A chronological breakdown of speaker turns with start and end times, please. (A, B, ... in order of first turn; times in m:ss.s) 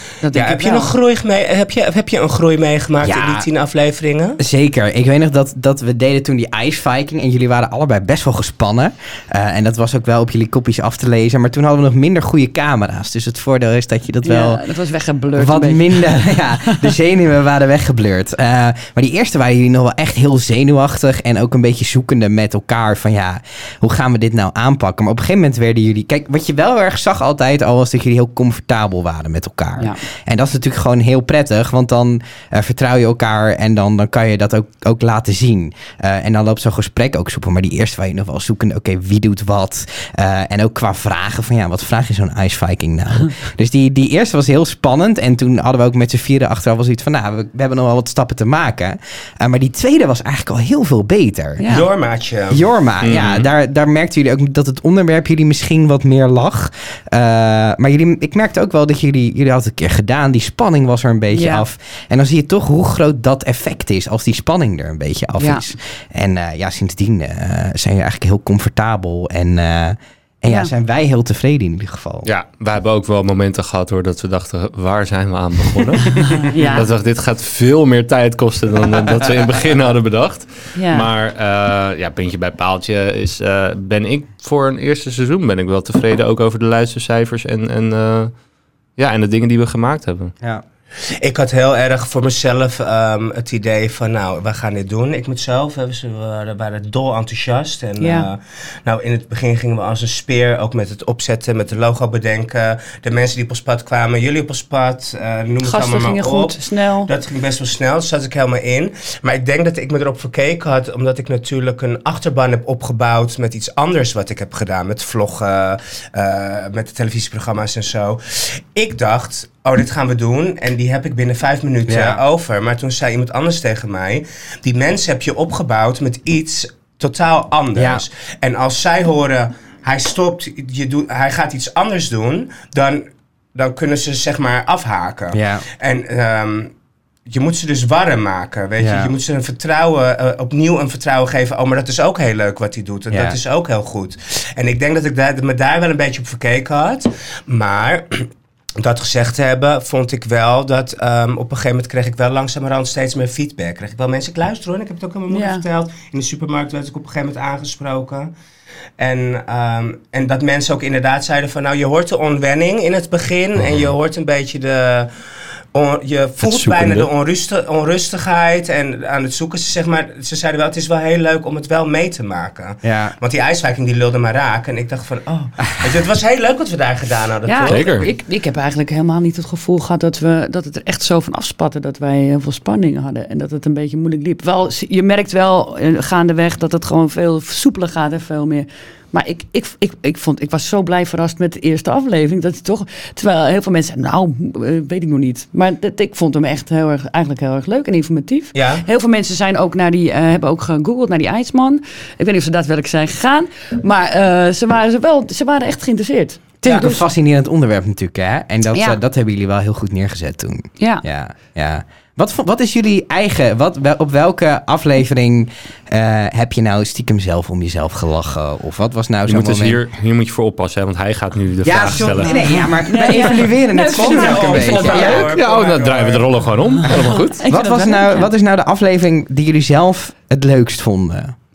0:00.2-0:00.9 A
0:00.3-0:04.4 B
0:03.0-0:03.5 C
0:04.4-0:14.6 C
0:14.2-0:16.8 A
0:15.4-0:51.8 C
0:51.6-0:51.9 A
0:51.7-0:52.6 B
0:52.5-1:12.3 C
0:53.0-0:53.5 D
1:01.3-1:01.6 A
1:05.4-1:05.7 A
1:12.2-1:28.3 D
1:16.2-1:16.9 A
1:20.7-1:21.1 A
1:29.0-1:30.3 D
1:31.2-2:16.7 B
1:38.0-1:38.3 A
1:45.6-1:47.1 A
2:01.9-2:02.2 C
2:07.7-2:08.0 C
2:15.3-2:15.6 C
2:17.2-2:38.3 B
2:18.8-2:19.1 C
2:23.1-2:23.4 C
2:35.3-2:35.6 A
2:39.0-2:45.1 B
2:45.7-2:58.1 B
2:46.4-2:47.1 D
2:52.8-2:53.1 C
2:57.4-3:27.0 A
2:57.7-2:58.1 D
3:18.5-3:18.8 B
3:26.6-3:39.8 C
3:26.6-3:26.9 B
3:28.7-3:29.0 A
3:30.8-3:31.0 A
3:39.2-3:42.6 D
3:41.6-3:45.3 C
3:42.2-3:45.2 A
3:43.9-3:46.2 B
3:44.8-3:47.4 D
3:46.9-3:51.3 C
3:46.9-3:48.3 A